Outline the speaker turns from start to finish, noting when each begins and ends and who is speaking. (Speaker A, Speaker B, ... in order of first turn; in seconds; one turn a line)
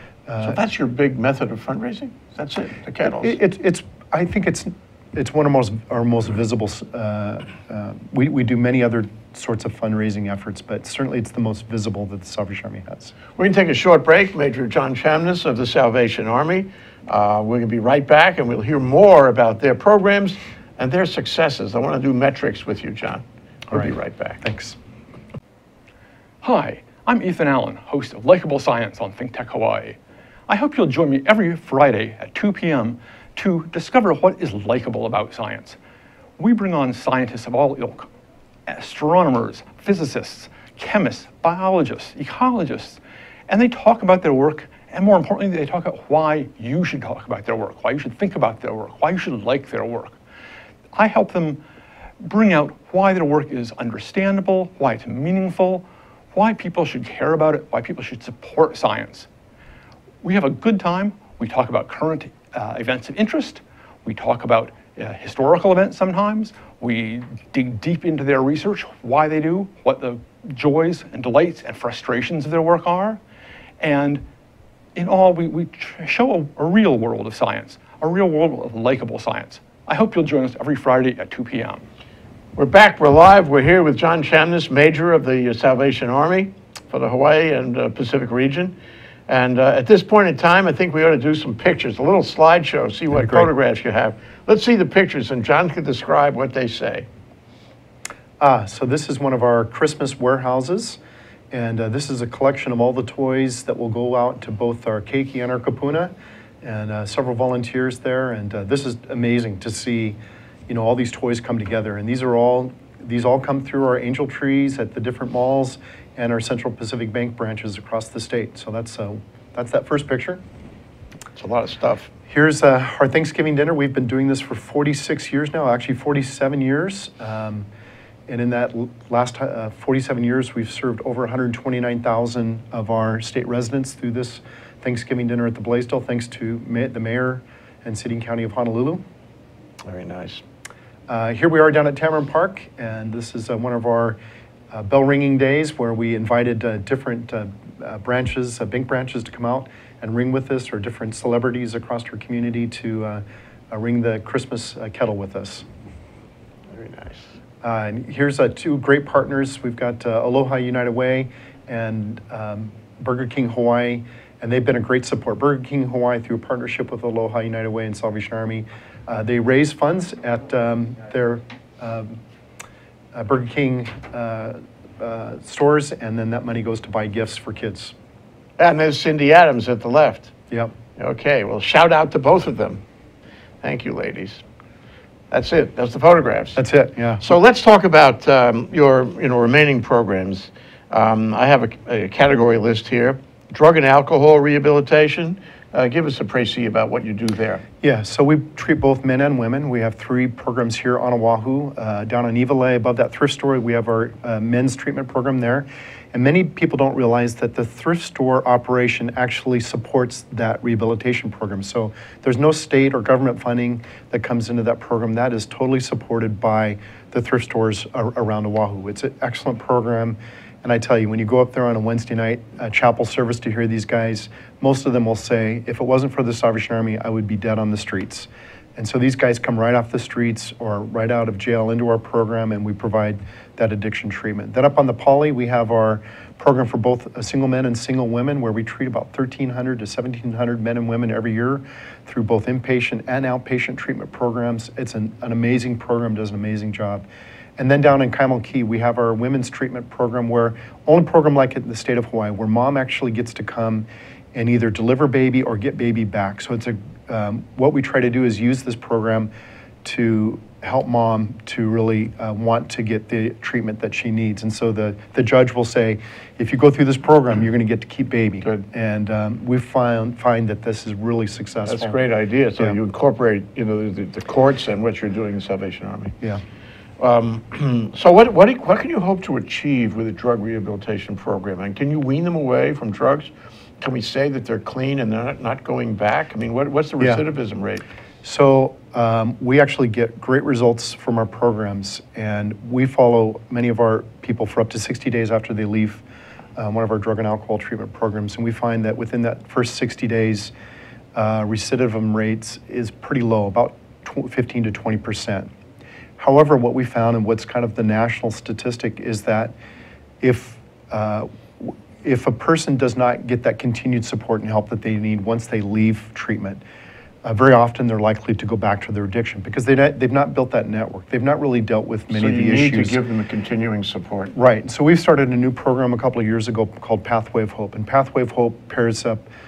Speaker A: 0.3-0.6
Speaker B: 0.4-3.4
Speaker A: 3.0-13.1
Speaker B: 13.4-24.4
Speaker A: 23.7-24.8
Speaker C: 26.4-30.0
Speaker C: 30.5-35.8
Speaker C: 36.4-38.1
Speaker C: 38.7-50.2
Speaker C: 50.9-51.6
Speaker C: 52.2-59.3
Speaker C: 60.2-73.2
Speaker C: 73.8-74.2
Speaker C: 75.0-81.8
Speaker B: 82.6-88.8
Speaker B: 89.3-97.1
Speaker A: 93.1-93.5
Speaker A: 98.4-101.0
Speaker A: 101.5-120.4
Speaker B: 121.4-122.1
Speaker A: 122.3-127.7
Speaker A: 128.3-139.0
Speaker B: 139.8-140.4
Speaker A: 141.1-144.2
Speaker A: 144.7-155.6
Speaker B: 156.7-157.3
Speaker A: 157.6-172.2
Speaker A: 173.1-177.9
Speaker B: 178.6-180.3
Speaker B: 181.0-182.8
Speaker B: 183.6-184.4
Speaker B: 185.3-186.7
Speaker A: 186.6-187.2
Speaker B: 187.2-197.6
Speaker A: 197.8-247.1
Speaker A: 247.6-259.3
Speaker A: 259.8-272.0
Speaker B: 271.7-276.2
Speaker B: 277.0-283.3
Speaker B: 283.8-287.8
Speaker A: 288.2-296.0
Speaker A: 296.6-300.5
Speaker A: 301.1-305.5
Speaker A: 306.2-309.5
Speaker A: 310.2-316.6
Speaker A: 317.2-323.0
Speaker B: 322.1-324.3
Speaker A: 324.4-329.3